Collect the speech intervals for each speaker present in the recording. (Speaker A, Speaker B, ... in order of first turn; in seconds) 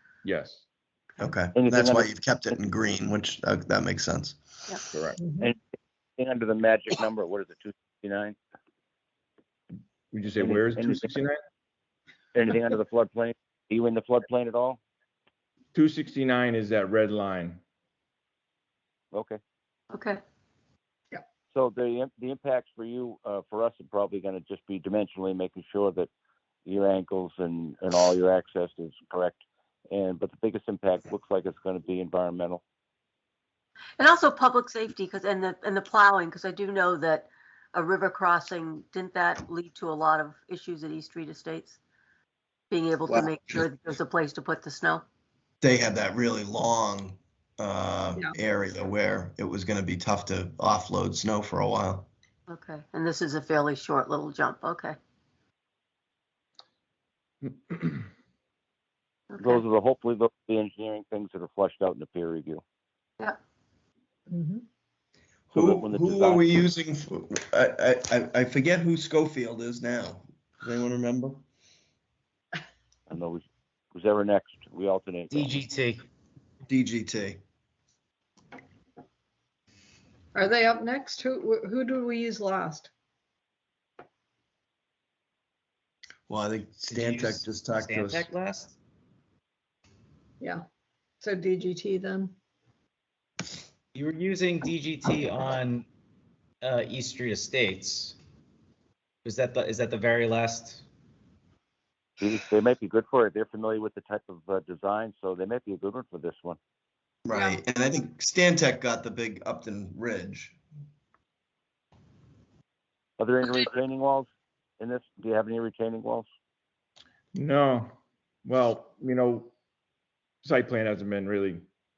Speaker A: 0.2-0.7, 4.9-5.2, 10.1-11.4, 15.7-17.6, 57.4-58.0, 117.3-117.9, 118.5-119.5, 120.4-121.7
Speaker B: 1.2-4.4, 43.1-43.6, 45.6-52.1, 65.5-71.4, 76.7-77.4, 86.3-88.3, 107.2-110.6
Speaker C: 1.5-2.1, 6.2-8.4, 10.4-11.1, 12.3-14.8, 19.1-19.4, 21.5-26.1, 26.6-32.6, 59.4-62.6, 65.5-66.4, 73.1-73.4, 73.9-75.6, 102.2-106.6, 113.2-116.3
Speaker D: 5.2-5.5, 64.3-64.6, 80.3-82.9, 91.2-92.3, 107.3-107.6
Speaker E: 19.9-20.2, 34.0-41.8, 42.7-45.0, 52.5-55.0, 59.3-59.6
Speaker F: 75.3-76.1, 86.9-88.8, 93.9-95.9, 96.6-98.2, 99.2-100.8